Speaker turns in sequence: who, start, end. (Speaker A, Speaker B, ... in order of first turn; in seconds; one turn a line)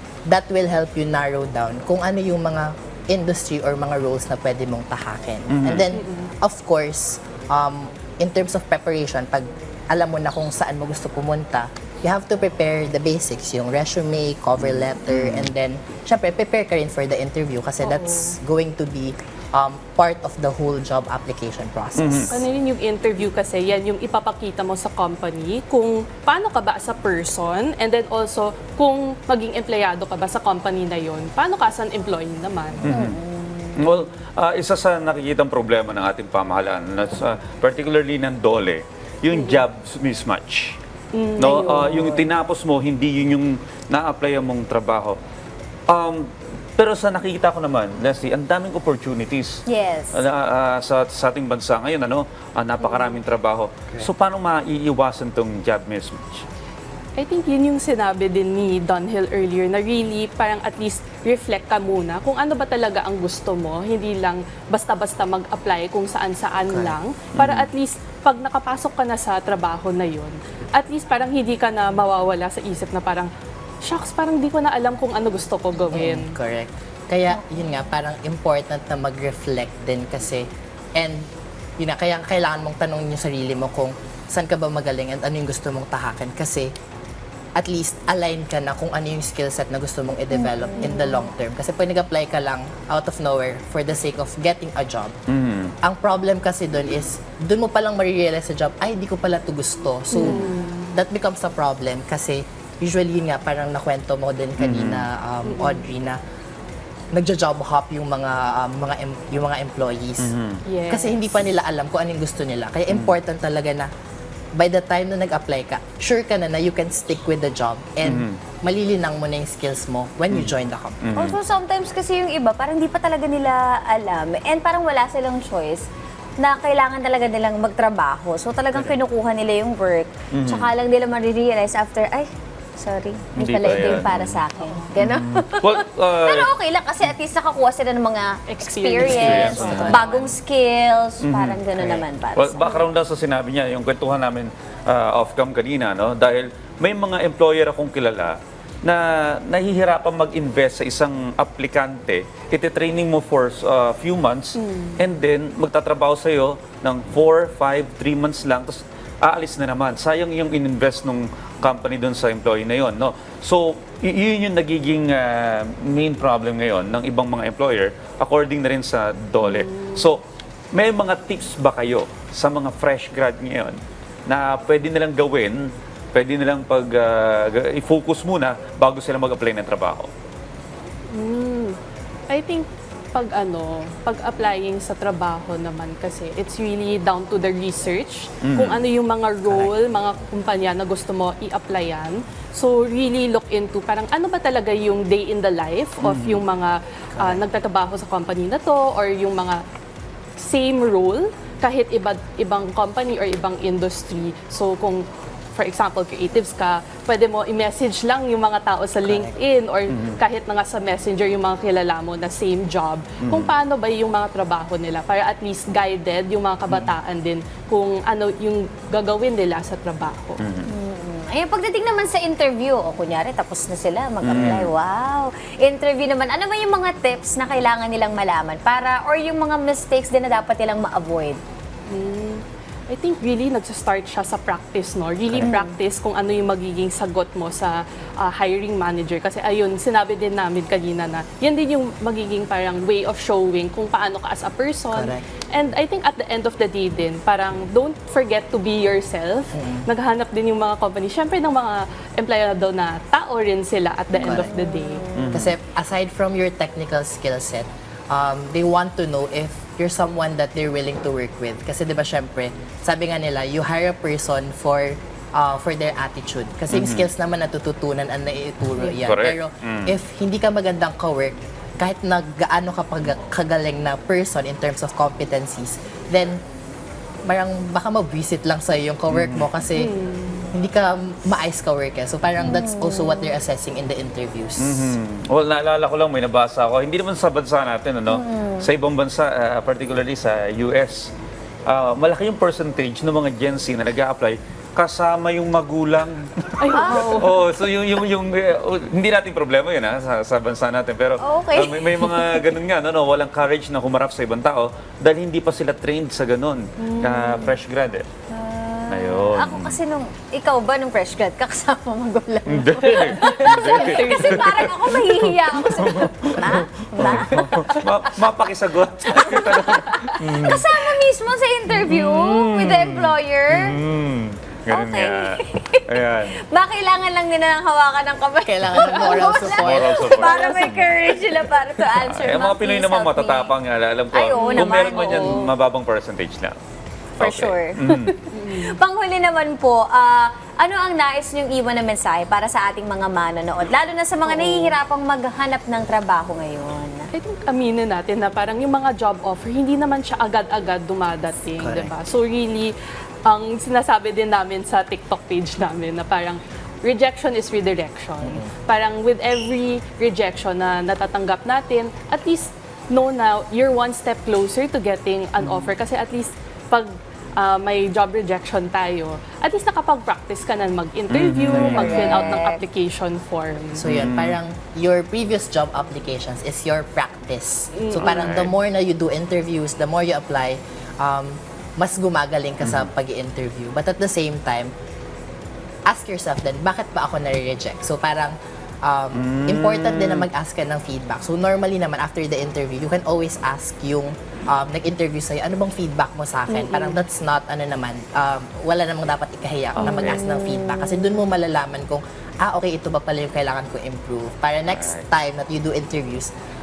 Speaker A: 0.3-22.4
Speaker B: 5.5-5.8
Speaker C: 5.9-6.3
Speaker B: 14.6-15.5
Speaker C: 17.8-18.4
Speaker B: 22.0-22.4
Speaker C: 22.3-32.9
Speaker B: 32.8-33.2
Speaker D: 32.8-33.9
Speaker B: 33.8-40.8
Speaker C: 39.3-39.6
Speaker C: 41.1-42.2
Speaker B: 41.4-45.2
Speaker B: 45.9-49.6
Speaker D: 49.7-50.2
Speaker B: 50.1-56.4
Speaker C: 52.8-53.2
Speaker C: 57.2-73.3
Speaker A: 66.7-67.0
Speaker B: 67.3-67.7
Speaker C: 73.8-76.3
Speaker A: 75.9-81.3
Speaker A: 81.8-86.7
Speaker A: 87.5-95.1
Speaker D: 90.3-91.3
Speaker B: 95.3-95.7
Speaker A: 95.8-106.2
Speaker C: 100.1-100.9
Speaker B: 104.6-105.1
Speaker C: 105.5-105.9
Speaker A: 107.1-110.3
Speaker B: 110.2-110.6
Speaker C: 110.7-111.2
Speaker A: 110.9-113.9
Speaker A: 114.5-121.0
Speaker B: 118.0-118.4
Speaker B: 120.3-121.4
Speaker D: 121.2-125.8
Speaker D: 126.4-142.8
Speaker B: 130.3-130.7
Speaker B: 133.3-134.4
Speaker B: 134.9-136.5
Speaker C: 138.5-140.4
Speaker B: 139.0-140.1
Speaker A: 139.1-140.0
Speaker B: 141.2-170.2
Speaker C: 154.6-155.0
Speaker C: 169.4-170.1
Speaker B: 170.7-180.1
Speaker C: 181.1-181.8
Speaker C: 182.3-199.6
Speaker B: 188.4-188.8
Speaker A: 189.4-189.7
Speaker B: 196.0-196.4
Speaker A: 197.2-197.4
Speaker C: 200.4-220.4
Speaker A: 209.0-209.3
Speaker B: 209.9-210.2
Speaker B: 213.2-213.5
Speaker B: 220.4-220.7
Speaker D: 220.7-231.4
Speaker B: 224.2-224.7
Speaker C: 231.9-255.0
Speaker D: 235.4-235.7
Speaker A: 244.9-245.2
Speaker A: 249.5-249.9
Speaker A: 254.2-254.6
Speaker D: 254.2-255.3
Speaker B: 255.2-255.5
Speaker A: 255.3-276.4
Speaker B: 266.7-267.1
Speaker B: 269.0-269.9
Speaker A: 277.3-279.9
Speaker B: 279.1-279.5
Speaker C: 279.7-280.5
Speaker A: 280.5-285.0
Speaker D: 282.4-283.4
Speaker B: 284.6-291.1
Speaker D: 288.1-288.7
Speaker B: 291.7-308.1
Speaker C: 296.6-297.4
Speaker D: 296.7-297.2
Speaker D: 301.2-302.5
Speaker C: 306.8-307.5
Speaker D: 308.3-317.7
Speaker B: 308.9-309.8
Speaker B: 312.5-321.0
Speaker C: 313.0-313.4
Speaker D: 319.1-323.8
Speaker B: 321.7-326.4
Speaker D: 324.7-325.9
Speaker D: 326.5-333.6
Speaker A: 328.4-330.7
Speaker B: 329.3-336.6
Speaker D: 334.1-335.4
Speaker C: 334.4-335.5
Speaker D: 337.2-347.1
Speaker B: 337.2-338.1
Speaker C: 338.3-338.8
Speaker C: 344.2-344.8
Speaker C: 347.1-352.8
Speaker A: 351.6-351.9
Speaker C: 353.2-373.8
Speaker A: 358.2-358.5
Speaker B: 371.1-372.2
Speaker D: 371.5-372.6
Speaker A: 373.8-384.7
Speaker B: 373.8-374.4
Speaker C: 377.7-378.3
Speaker B: 378.0-378.5
Speaker B: 382.6-382.9
Speaker A: 385.9-406.3
Speaker B: 389.1-390.3
Speaker D: 396.5-397.0
Speaker B: 399.8-400.2
Speaker D: 399.8-401.1
Speaker B: 404.7-405.1